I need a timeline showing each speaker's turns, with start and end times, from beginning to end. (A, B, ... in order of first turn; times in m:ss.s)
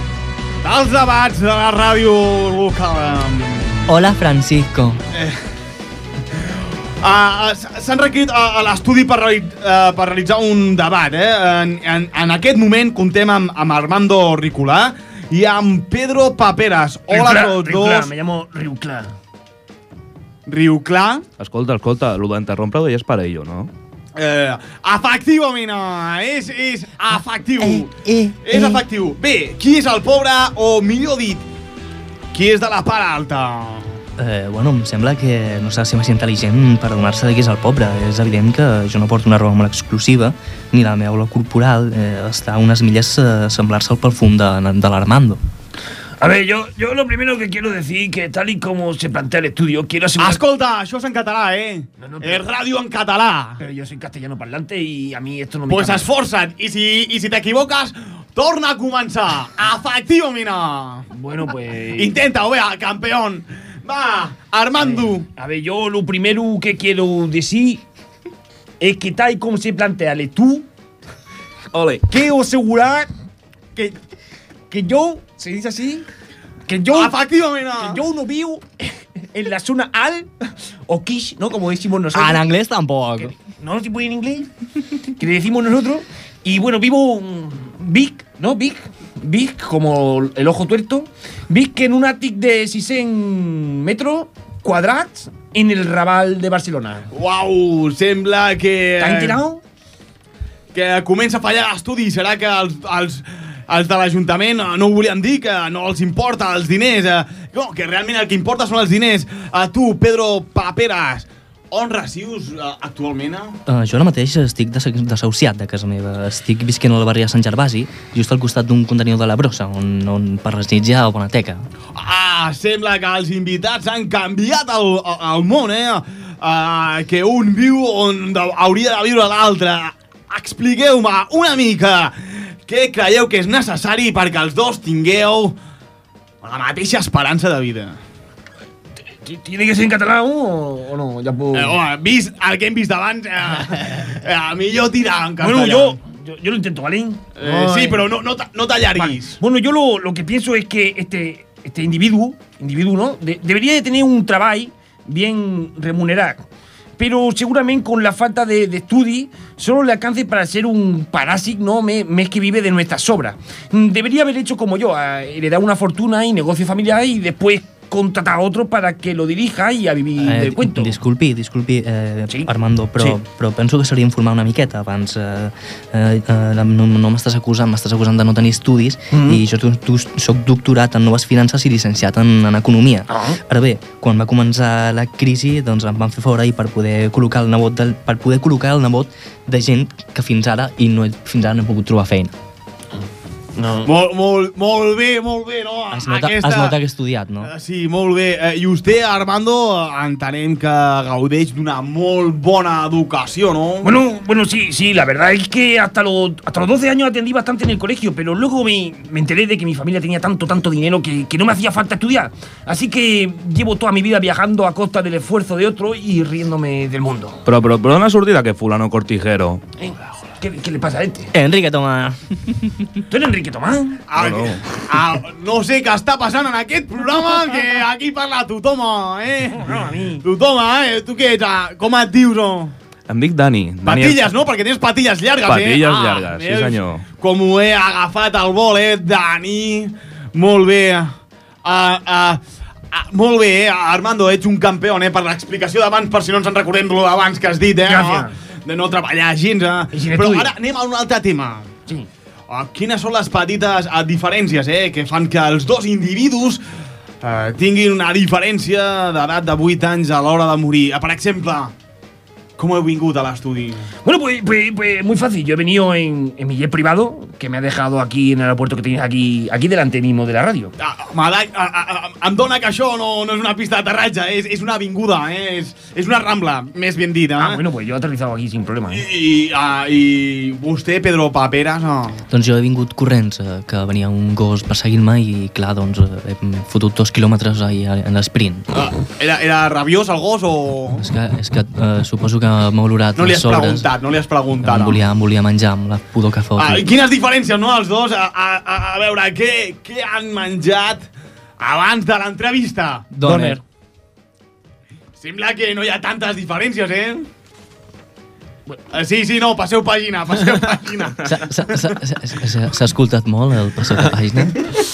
0:00.6-0:03.9 A
0:03.9-0:05.0 B
0:05.1-0:05.4 A
0:07.0-0:18.1 A
0:17.1-0:19.1 C
0:20.5-0:21.3 A
0:21.4-0:23.7 D
0:24.2-0:31.4 A
0:28.0-0:28.8 B
0:32.3-0:34.0 A
0:34.2-0:45.4 B
0:46.2-0:50.4 C
0:50.2-0:53.6 A
0:52.0-0:52.4 C
0:53.6-0:56.0 C
0:55.7-1:01.1 A
1:01.1-1:02.2 C
1:01.9-1:05.3 A
1:04.8-1:07.8 C
1:08.8-1:10.7 C
1:11.8-1:13.1 C
1:14.7-1:16.0 C
1:16.7-1:17.2 C
1:16.9-1:18.0 A
1:17.8-1:18.8 C
1:19.3-1:20.3 C
1:20.9-1:22.5 C
1:22.1-1:23.3 B
1:23.2-1:24.5 C
1:25.2-1:37.1 C
1:37.1-1:39.4 A
1:39.0-1:39.6 C
1:40.7-1:53.6 A
1:53.7-2:01.6 B
2:02.0-2:15.6 A
2:16.4-2:18.0 A
2:19.2-2:21.8 C
2:21.5-2:26.0 A
2:25.4-2:28.0 C
2:27.4-2:29.4 A
2:29.0-2:36.4 C
2:37.0-2:51.0 C
2:50.2-3:12.3 B
2:52.3-2:53.2 C
3:03.1-3:03.4 C
3:13.6-3:13.9 C
3:13.8-3:16.8 A
3:15.9-3:17.5 B
3:17.4-3:24.0 A
3:23.8-3:37.4 C
3:37.5-3:39.6 D
3:39.8-3:41.3 C
3:41.3-3:42.8 B
3:43.1-3:44.0 C
3:44.1-3:52.7 A
3:44.2-3:44.6 D
3:49.5-3:50.2 C
3:53.1-3:54.3 D
3:53.8-4:02.4 A
3:55.5-3:57.0 D
4:02.9-4:11.7 A
4:07.9-4:08.3 C
4:09.9-4:10.5 C
4:12.5-4:16.6 A
4:17.2-4:21.7 A
4:22.6-4:23.9 A
4:24.0-4:30.7 C
4:30.8-4:37.6 A
4:37.4-4:39.0 C
4:38.9-4:42.2 A
4:42.3-4:48.7 B
4:48.7-4:51.0 A
4:51.0-4:53.9 B
4:53.2-4:55.0 A
4:54.6-4:56.9 B
4:56.6-5:01.1 A
5:01.6-5:03.1 A
5:03.1-5:03.6 B
5:03.2-5:03.6 C
5:05.2-5:07.3 A
5:08.9-5:11.8 A
5:11.2-5:14.6 B